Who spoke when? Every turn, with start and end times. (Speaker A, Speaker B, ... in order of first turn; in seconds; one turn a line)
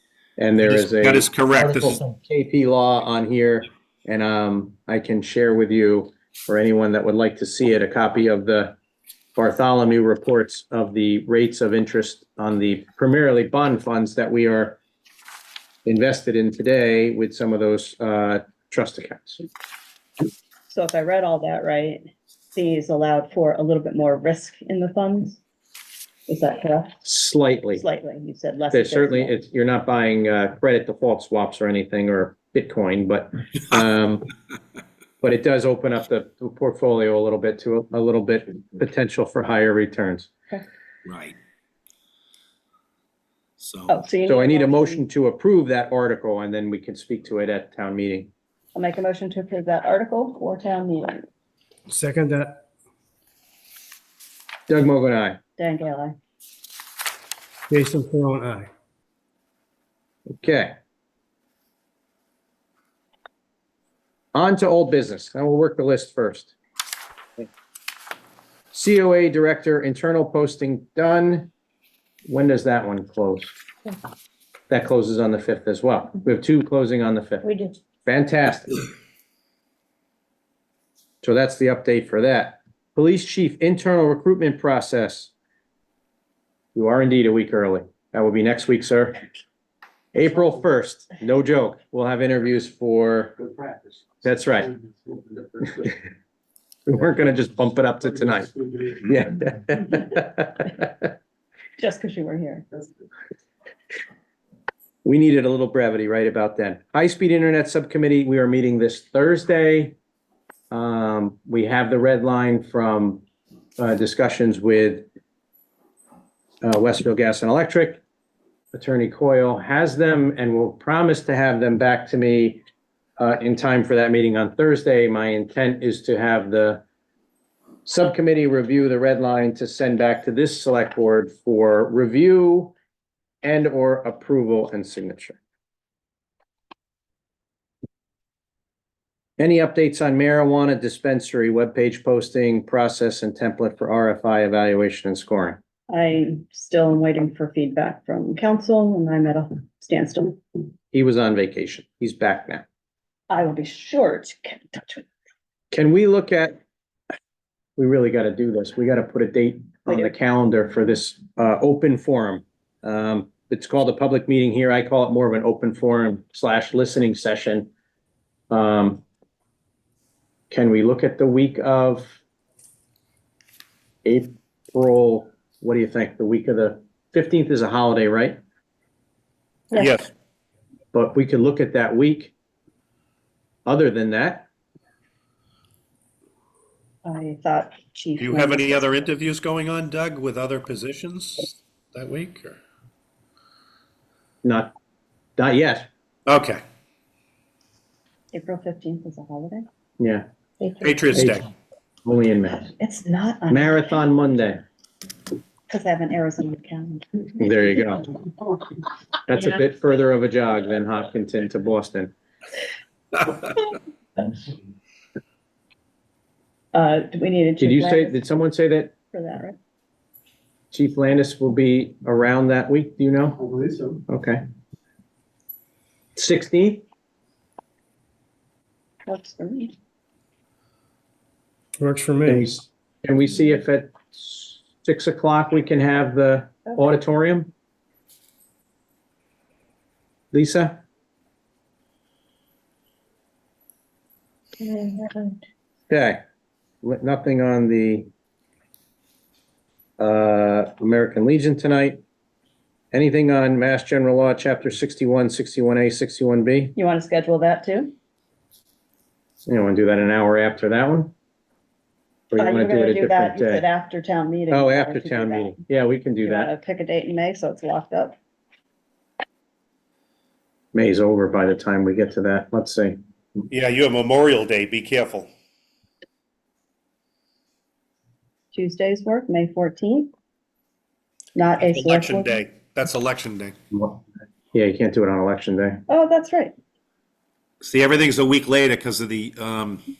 Speaker A: 0.4-8.8
Speaker B: 0.6-2.0
Speaker A: 9.3-14.8
Speaker A: 15.8-19.4
Speaker C: 20.7-25.4
Speaker C: 26.3-27.0
Speaker A: 27.0-27.8
Speaker C: 27.8-29.4
Speaker A: 28.7-34.3
Speaker A: 35.2-40.3
Speaker B: 41.0-41.4
Speaker B: 43.6-43.9
Speaker C: 43.9-45.0
Speaker A: 44.2-48.3
Speaker C: 48.7-51.2
Speaker D: 51.9-52.6
Speaker A: 54.7-55.4
Speaker C: 55.6-56.1
Speaker D: 57.7-58.7
Speaker A: 60.4-60.8
Speaker A: 64.3-66.5
Speaker A: 68.7-71.5
Speaker A: 72.3-73.5
Speaker A: 74.7-77.5
Speaker A: 78.0-78.8
Speaker A: 81.2-85.3
Speaker A: 86.7-89.2
Speaker A: 90.1-93.5
Speaker A: 94.2-94.7
Speaker A: 95.6-96.0
Speaker A: 96.8-101.1
Speaker C: 101.8-102.7
Speaker A: 105.0-109.9
Speaker A: 110.7-113.2
Speaker A: 113.8-115.0
Speaker A: 116.6-118.0
Speaker A: 118.7-122.6
Speaker A: 123.2-126.8
Speaker A: 127.8-132.7
Speaker A: 133.4-135.4
Speaker A: 139.4-145.6
Speaker C: 145.9-150.4
Speaker A: 150.9-152.6
Speaker C: 153.3-155.1
Speaker A: 155.7-156.6
Speaker A: 157.8-167.7
Speaker C: 159.9-160.1
Speaker A: 168.5-169.0
Speaker A: 170.5-172.2
Speaker A: 174.0-178.4
Speaker B: 179.7-180.1
Speaker A: 180.9-182.3
Speaker A: 183.7-184.5
Speaker C: 187.0-189.1
Speaker B: 188.2-192.6
Speaker A: 194.4-194.7
Speaker A: 195.4-195.8
Speaker B: 196.3-196.6
Speaker C: 198.3-199.6
Speaker A: 200.0-200.2
Speaker C: 200.6-201.0
Speaker B: 200.8-201.5
Speaker A: 202.0-202.7
Speaker C: 202.8-204.0
Speaker A: 203.5-204.6
Speaker C: 205.7-207.8
Speaker A: 207.4-208.1
Speaker A: 209.3-212.1
Speaker C: 216.7-218.2
Speaker A: 217.6-218.9
Speaker C: 219.1-219.6
Speaker A: 220.7-223.4
Speaker A: 224.1-224.4
Speaker A: 226.2-226.8
Speaker C: 229.1-229.7
Speaker D: 231.8-232.5
Speaker A: 232.2-237.5
Speaker A: 240.3-240.8
Speaker C: 244.6-245.3
Speaker A: 245.9-246.2
Speaker A: 246.8-248.1
Speaker A: 250.0-252.0
Speaker A: 252.9-256.7
Speaker C: 256.8-257.9
Speaker A: 259.4-261.1
Speaker A: 262.3-263.6
Speaker C: 262.4-265.6
Speaker A: 264.5-266.5
Speaker C: 266.2-268.1
Speaker A: 270.7-273.0
Speaker B: 273.5-275.3
Speaker C: 278.5-280.1
Speaker C: 281.3-282.4
Speaker B: 281.6-283.5
Speaker A: 283.7-284.0
Speaker A: 284.5-285.8
Speaker C: 285.9-286.5
Speaker B: 287.6-289.8